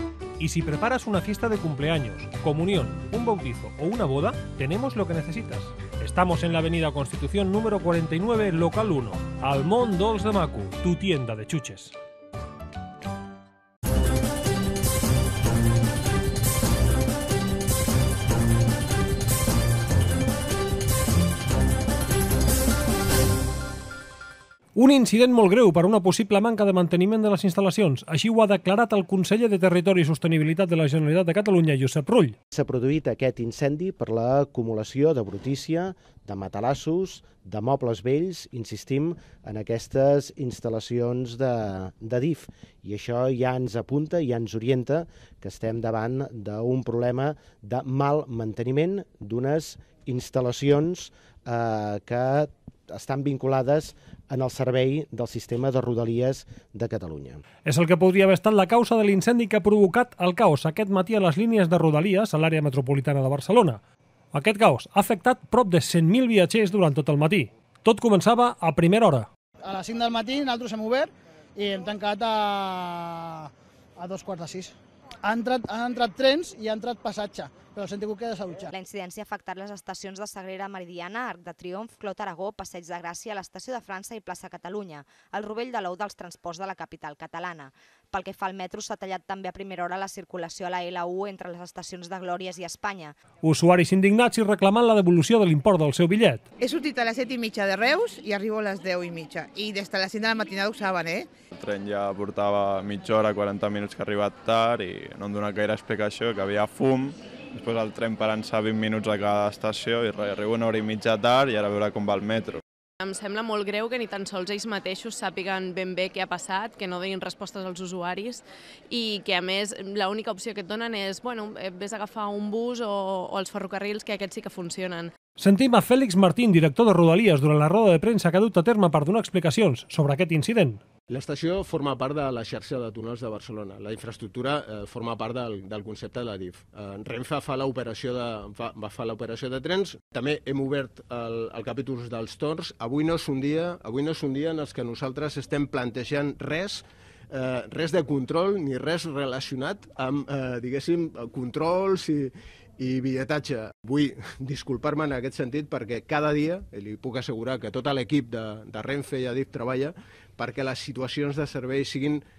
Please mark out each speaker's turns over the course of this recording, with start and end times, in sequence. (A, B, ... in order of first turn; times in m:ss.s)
0:00.4-0:11.9 A
0:24.7-0:32.4 A
0:32.5-0:57.4 B
0:57.6-1:03.8 A
1:04.3-1:09.3 A
1:09.6-1:14.7 C
1:15.2-1:18.7 C
1:18.7-1:33.1 D
1:33.4-1:36.4 A
1:36.6-1:41.3 E
1:41.5-1:52.6 F
1:53.0-2:05.1 G
2:05.4-2:10.8 A
2:11.1-2:42.2 H